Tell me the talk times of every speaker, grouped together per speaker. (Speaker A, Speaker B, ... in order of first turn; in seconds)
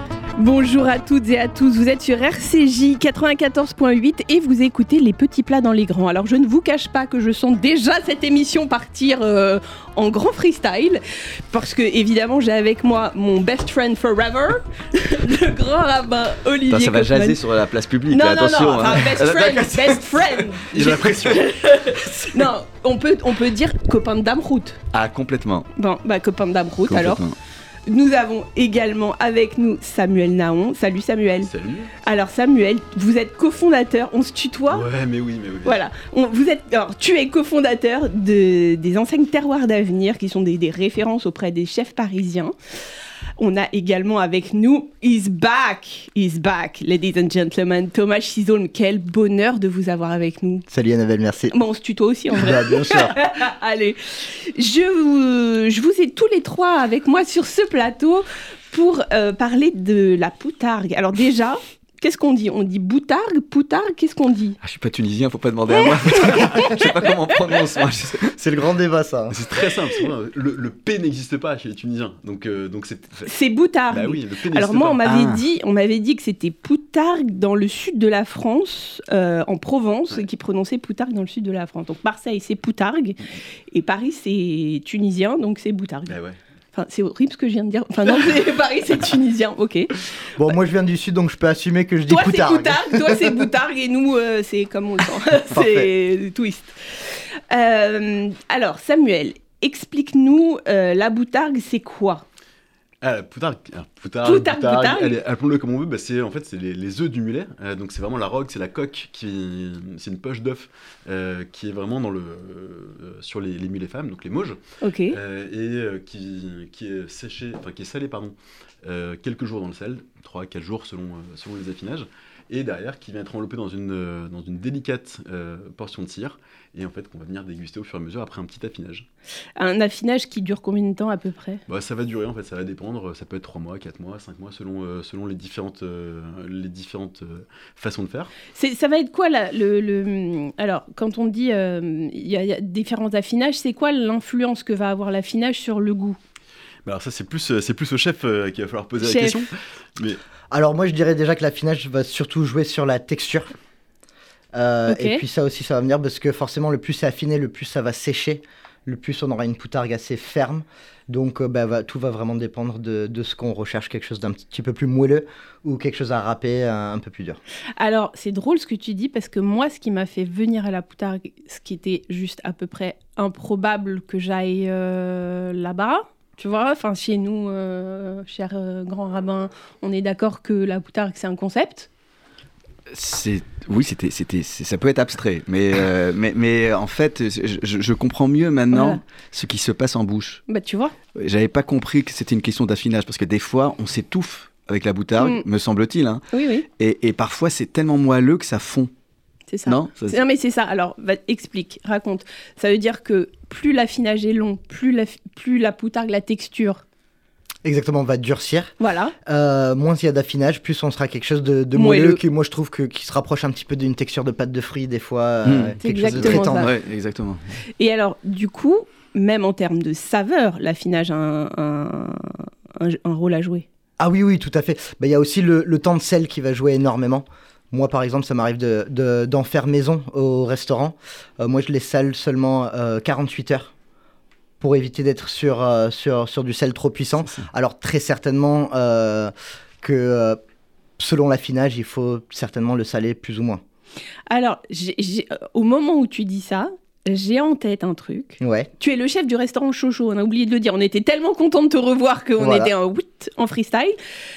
Speaker A: 0.4-17.4, 18.1-24.8, 25.8-27.2, 27.9-31.5, 32.0-34.9, 35.6-42.5, 43.4-50.6, 51.5-64.6, 65.7-67.4, 73.2-86.2, 86.7-90.0, 92.1-102.2, 104.2-105.2, 114.8-115.2, 129.6-131.6, 138.5-146.2, 149.0-149.5, 154.9-155.2, 167.8-181.9, 188.7-189.0, 190.5-190.9, 195.2-195.4, 196.3-196.7, 199.5-206.8, 208.8-209.1, 211.7-212.2, 215.8-216.7, 217.8-223.7, 244.3-253.9
Speaker B: 16.7-22.5, 24.9-25.7, 26.9-27.3, 64.6-68.4, 75.0-75.5, 182.9-190.4, 191.1-198.9, 199.7-200.2, 215.4-217.4
Speaker C: 20.7-21.5, 31.4-31.9, 34.7-35.8, 69.3-73.3, 73.9-75.0, 86.1-86.4, 103.0-129.1, 131.7-138.3, 146.8-150.2
Speaker D: 50.7-51.5, 52.3-53.2, 68.3-69.4, 90.3-93.2, 150.5-153.5, 154.5-167.4, 207.6-208.7, 209.2-216.7, 224.0-233.7, 234.6-240.4, 241.0-243.6, 248.4-248.7, 252.4-252.7